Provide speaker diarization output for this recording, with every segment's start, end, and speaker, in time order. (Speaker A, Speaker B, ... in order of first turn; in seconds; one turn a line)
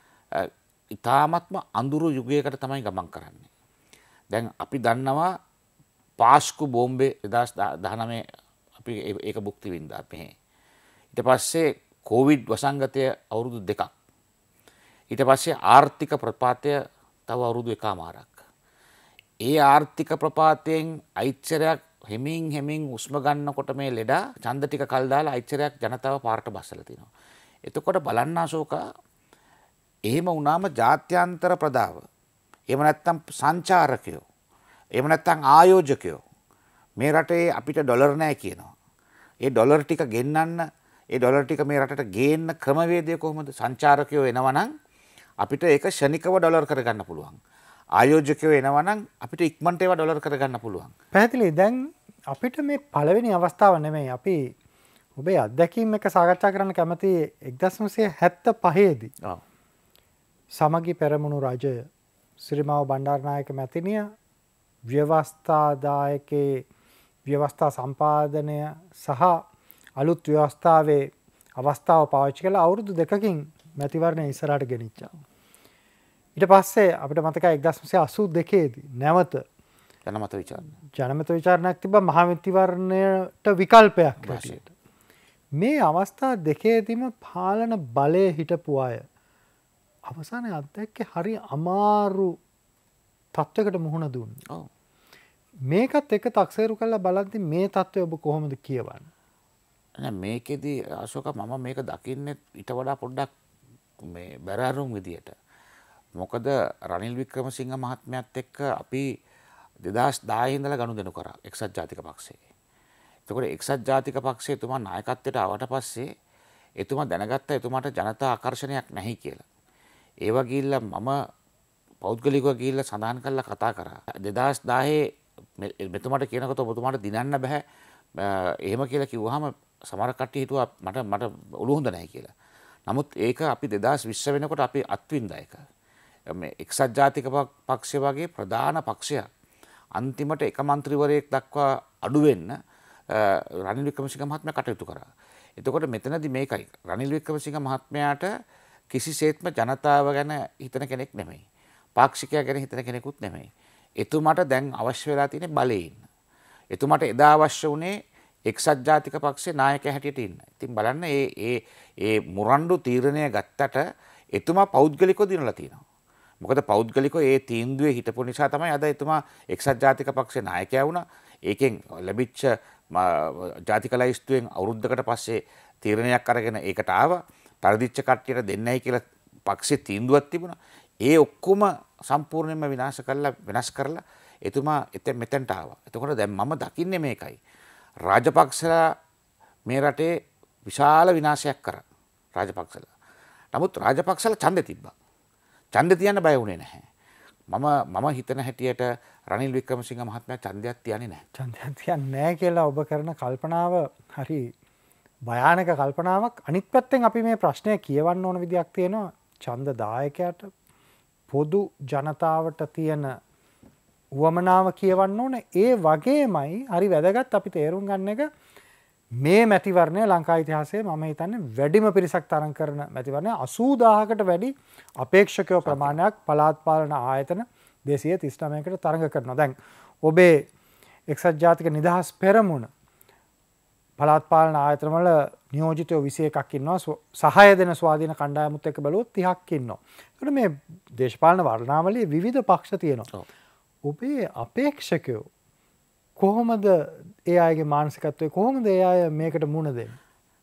Speaker A: 0.3-3.5
Speaker A: 4.3-5.3
Speaker A: 6.2-8.2
Speaker A: 8.8-10.3
Speaker A: 11.1-13.9
Speaker A: 15.1-18.4
Speaker A: 19.4-27.1
Speaker A: 27.7-28.8
Speaker A: 30.1-32.0
Speaker A: 32.7-34.2
Speaker A: 35.0-36.2
Speaker A: 37.0-38.7
Speaker A: 39.4-44.7
Speaker A: 45.4-47.4
Speaker A: 48.0-50.9
Speaker B: 51.1-54.5
Speaker B: 55.2-59.1
Speaker B: 60.5-61.9
Speaker B: 62.4-64.1
Speaker B: 64.9-66.7
Speaker B: 67.3-69.4
Speaker B: 70.0-75.2
Speaker B: 76.4-79.4
Speaker A: 80.1-80.8
Speaker B: 81.0-84.7
Speaker A: 84.2-84.6
Speaker B: 85.6-89.0
Speaker B: 90.1-92.4
Speaker B: 93.4-94.4
Speaker B: 95.7-99.1
Speaker A: 100.0-103.3
Speaker A: 104.0-105.3
Speaker A: 106.2-109.1
Speaker A: 109.8-112.4
Speaker A: 113.3-116.1
Speaker A: 116.8-119.4
Speaker A: 120.3-121.2
Speaker A: 122.0-127.6
Speaker A: 128.2-132.3
Speaker A: 132.9-135.6
Speaker A: 136.3-139.3
Speaker A: 140.0-142.6
Speaker A: 143.1-145.1
Speaker A: 145.6-148.3
Speaker A: 148.9-151.4
Speaker A: 152.0-153.5
Speaker A: 154.0-156.0
Speaker A: 156.7-157.9
Speaker A: 158.5-163.8
Speaker A: 164.3-165.8
Speaker A: 166.4-187.4
Speaker A: 188.1-188.8
Speaker A: 189.7-190.1
Speaker A: 190.7-191.8
Speaker A: 192.4-192.9
Speaker A: 193.5-194.9
Speaker A: 195.7-196.9
Speaker A: 197.5-201.2
Speaker B: 201.4-204.5
Speaker B: 205.3-210.5
Speaker B: 211.3-213.1
Speaker B: 214.2-218.3
Speaker B: 219.2-230.5
Speaker A: 225.7-226.0
Speaker B: 231.1-232.7
Speaker B: 234.0-243.1
Speaker B: 243.9-245.3
Speaker B: 246.2-246.8
Speaker B: 247.3-250.0